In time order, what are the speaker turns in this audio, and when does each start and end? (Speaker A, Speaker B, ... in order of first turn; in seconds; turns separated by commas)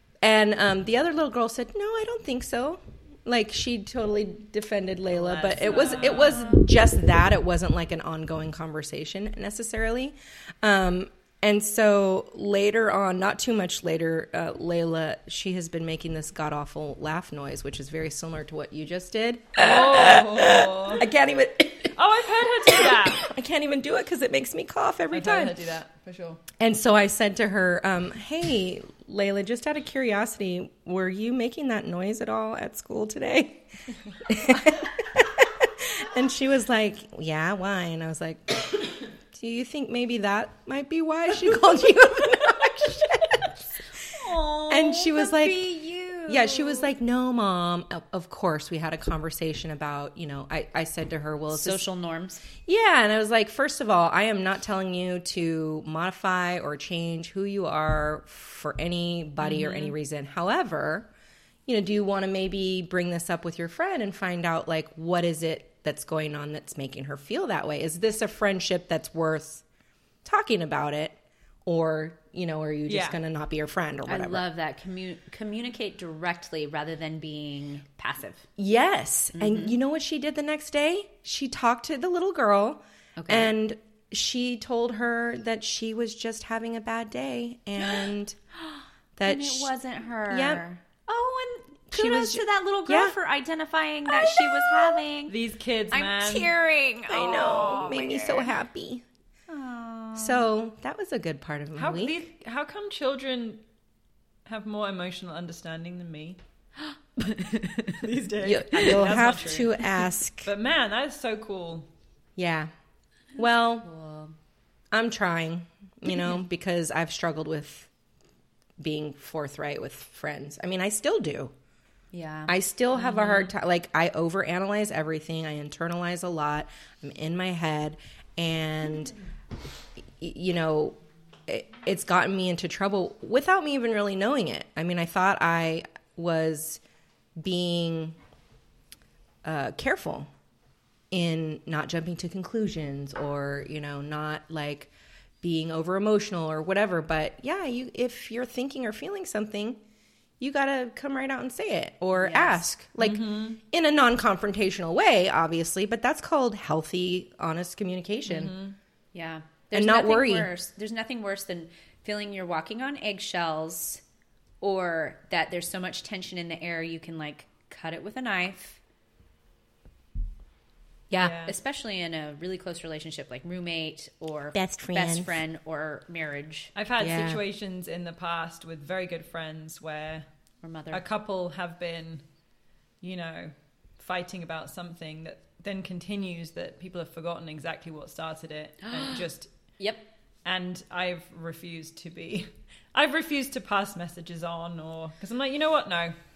Speaker A: 0.2-21.9, Speaker B: 5.1-6.5, Speaker C: 5.7-6.6, Speaker B: 19.6-21.0, Speaker B: 21.9-23.2, Speaker A: 22.6-25.6, Speaker B: 25.1-26.4, Speaker A: 26.6-33.6, Speaker A: 34.2-43.7, Speaker C: 44.0-46.9, Speaker A: 44.7-45.8, Speaker A: 46.3-51.8, Speaker C: 51.5-52.4, Speaker A: 52.6-61.1, Speaker C: 59.5-59.9, Speaker A: 61.6-69.6, Speaker A: 70.2-74.4, Speaker B: 72.9-73.2, Speaker C: 74.0-78.5, Speaker A: 78.6-88.4, Speaker C: 79.3-79.8, Speaker C: 83.2-83.5, Speaker A: 89.2-89.7, Speaker C: 89.2-95.3, Speaker A: 90.3-90.6, Speaker A: 91.9-93.2, Speaker A: 94.1-95.0, Speaker B: 95.3-96.5, Speaker C: 95.9-98.5, Speaker A: 97.1-99.0, Speaker C: 99.5-100.5, Speaker A: 100.2-102.2, Speaker B: 101.7-103.6, Speaker B: 104.5-106.4, Speaker C: 107.2-108.0, Speaker B: 107.9-109.8, Speaker A: 108.4-110.5, Speaker B: 110.4-111.9, Speaker A: 112.3-112.7, Speaker A: 113.3-113.9, Speaker C: 113.8-114.3, Speaker A: 114.9-117.9, Speaker A: 118.8-121.5, Speaker C: 122.1-123.5, Speaker A: 122.5-129.2, Speaker A: 130.2-130.9, Speaker A: 131.5-136.8, Speaker A: 137.4-138.2, Speaker A: 139.4-140.3, Speaker A: 141.1-144.9, Speaker A: 145.4-149.8, Speaker A: 150.4-158.5, Speaker C: 152.2-152.6, Speaker B: 153.0-153.6, Speaker B: 158.3-158.8, Speaker C: 159.1-164.0, Speaker A: 159.7-160.5, Speaker C: 164.6-168.8, Speaker A: 171.1-171.4, Speaker B: 171.2-171.6, Speaker C: 171.4-176.7, Speaker A: 174.5-175.4, Speaker B: 176.7-180.2, Speaker A: 177.0-177.4, Speaker C: 180.6-181.0, Speaker B: 180.9-182.2, Speaker B: 183.0-189.5, Speaker C: 188.8-189.3, Speaker C: 189.8-190.0, Speaker B: 190.4-196.1